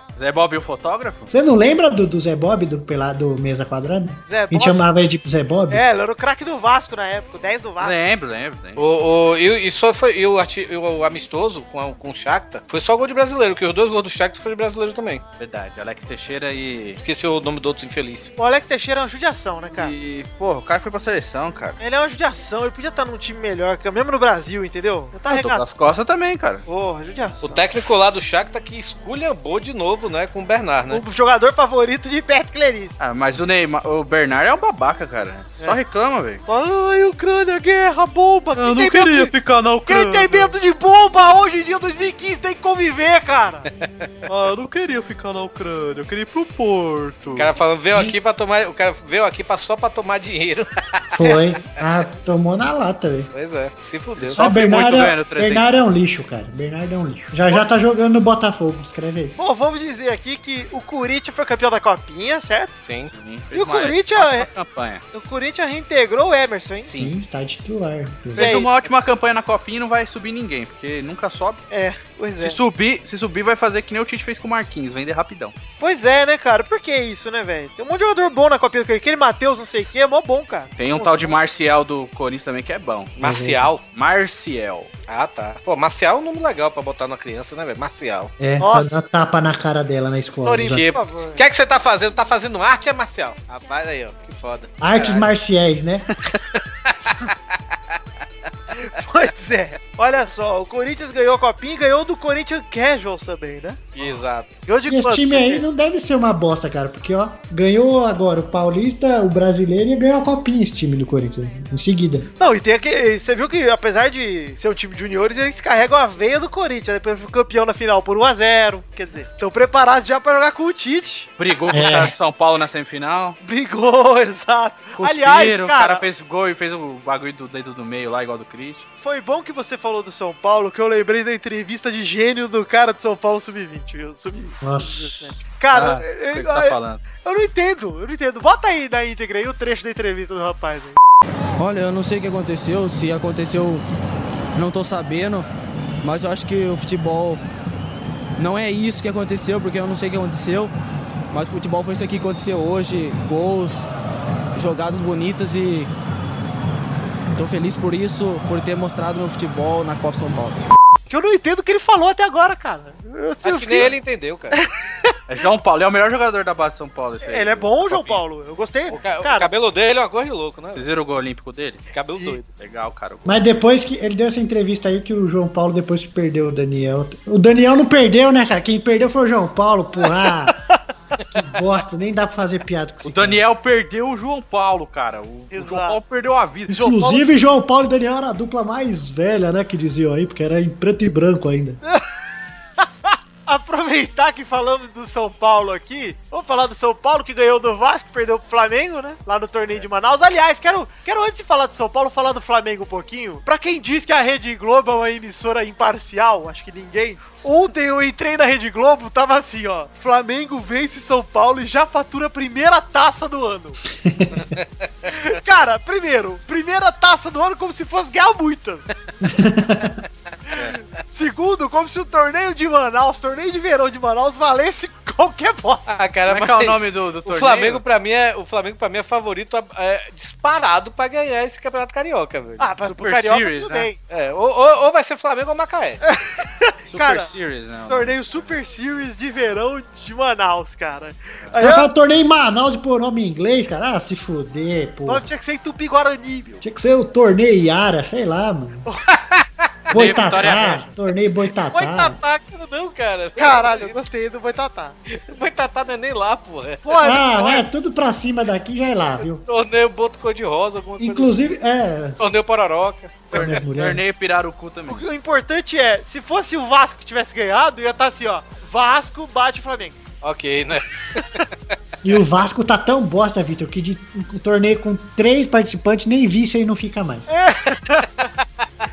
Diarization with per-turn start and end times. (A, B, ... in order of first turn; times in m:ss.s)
0:00.2-0:01.3 A
0:01.3-0:05.8 B
0:04.3-0:04.9 C
0:05.7-0:08.0 C
0:07.8-0:08.8 A
0:08.8-0:15.2 D
0:15.4-0:17.0 A
0:17.0-0:18.3 D
0:18.4-0:20.0 C
0:19.8-0:21.8 A
0:21.8-0:25.7 C
0:25.3-0:26.6 A
0:26.7-0:27.7 C
0:27.4-0:31.0 D
0:30.9-0:33.0 C
0:33.0-0:36.4 A
0:36.4-0:39.4 C
0:38.6-0:40.6 A
0:39.9-0:43.7 C
0:44.3-0:47.5 A
0:47.4-0:50.8 D
0:51.1-0:53.3 B
0:53.3-0:54.4 D
0:54.2-0:55.7 A
0:54.4-0:59.4 B
0:59.4-1:02.7 C
1:02.8-1:03.1 D
1:03.1-1:05.0 A
1:03.5-1:04.5 C
1:05.1-1:07.0 C
1:06.9-1:08.5 B
1:08.3-1:11.6 A
1:08.4-1:08.8 C
1:11.7-1:12.6 C
1:12.4-1:15.5 A
1:15.8-1:21.4 C
1:20.8-1:23.2 A
1:23.2-1:23.8 D
1:23.2-1:23.7 B
1:23.8-1:24.9 A
1:25.1-1:28.3 D
1:28.4-1:30.9 B
1:28.6-1:29.0 C
1:30.4-1:31.4 C
1:30.7-1:35.2 D
1:34.8-1:36.1 B
1:38.8-1:43.8 C
1:44.0-1:44.6 D
1:44.7-1:45.6 C
1:44.9-1:52.3 B
1:52.4-2:01.3 C
2:01.4-2:03.4 A
2:01.7-2:02.1 B
2:03.4-2:06.1 C
2:05.0-2:08.9 A
2:09.0-2:21.0 C
2:14.6-2:15.3 B
2:15.7-2:17.0 A
2:21.6-2:23.8 E
2:24.6-2:25.5 E
2:26.0-2:27.4 E
2:28.4-2:30.7 E
2:31.3-2:33.9 E
2:34.6-2:35.9 E
2:37.4-2:40.7 E
2:41.1-2:43.9 C
2:43.4-2:44.6 D
2:44.5-2:45.2 C
2:45.3-2:48.2 A
2:47.2-2:49.5 C
2:48.9-2:50.8 D
2:50.7-2:51.8 A
2:51.9-2:52.4 D
2:52.5-2:53.5 A
2:53.2-3:00.6 B
3:00.7-3:01.2 C
3:01.3-3:03.4 B
3:03.0-3:07.2 A
3:05.5-3:06.0 C
3:06.7-3:11.8 B
3:12.8-3:33.8 C
3:33.9-3:34.4 B
3:35.1-3:38.9 C
3:39.2-3:40.0 B
3:40.5-3:45.9 C
3:45.9-3:52.7 D
3:46.3-3:47.8 A
3:52.6-3:54.0 C
3:52.9-3:53.9 A
3:54.1-3:56.0 D
3:56.0-3:57.3 C
3:56.9-3:58.2 A
3:57.9-4:01.9 C
4:01.6-4:05.2 B
4:05.1-4:06.6 C
4:06.6-4:08.9 B
4:09.1-4:09.4 D
4:09.9-4:12.2 B
4:09.9-4:10.9 A
4:11.7-4:14.0 D
4:13.4-4:14.9 C
4:15.1-4:16.8 D
4:16.8-4:17.7 C
4:17.0-4:19.4 B
4:19.4-4:21.5 D
4:21.0-4:22.2 B
4:22.2-4:23.5 D
4:23.3-4:24.0 B
4:23.3-4:25.0 A
4:24.9-4:30.0 C
4:30.2-4:31.2 D
4:32.0-4:37.3 B
4:37.3-4:38.2 C